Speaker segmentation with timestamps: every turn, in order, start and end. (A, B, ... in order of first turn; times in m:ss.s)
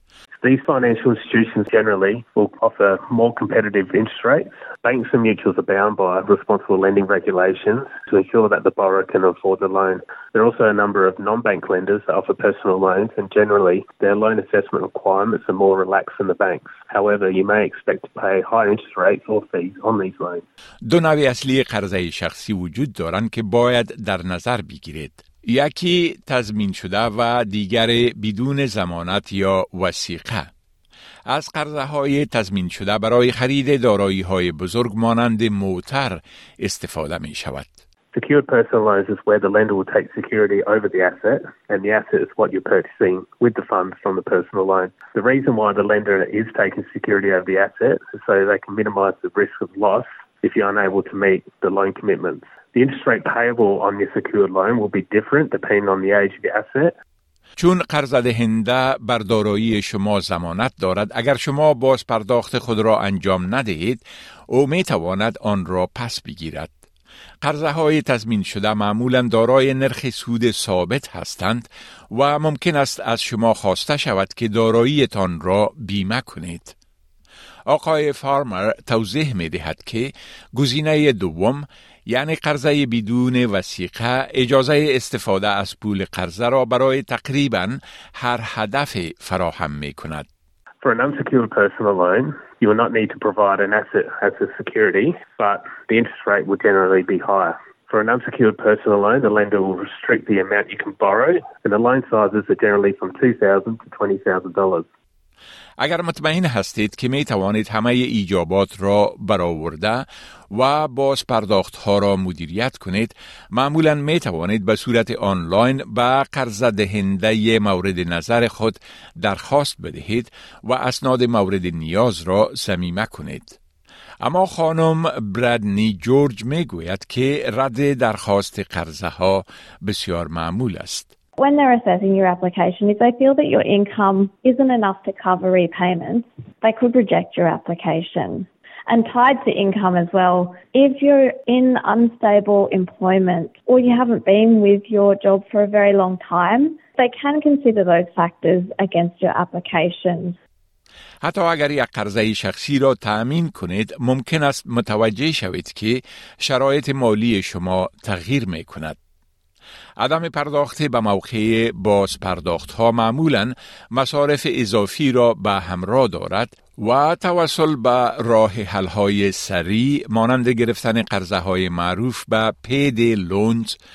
0:00.4-0:20.4 A
0:20.8-0:30.5 B
0:31.3-0:37.7 B
0:38.1-0:56.9 A
0:57.6-1:06.7 B
1:07.4-1:16.7 B
1:17.7-1:30.3 B
1:30.8-1:44.9 A
1:45.8-2:03.6 B
2:04.2-2:11.1 B
2:11.4-2:30.4 C
2:31.2-2:39.0 B
2:40.0-2:53.8 B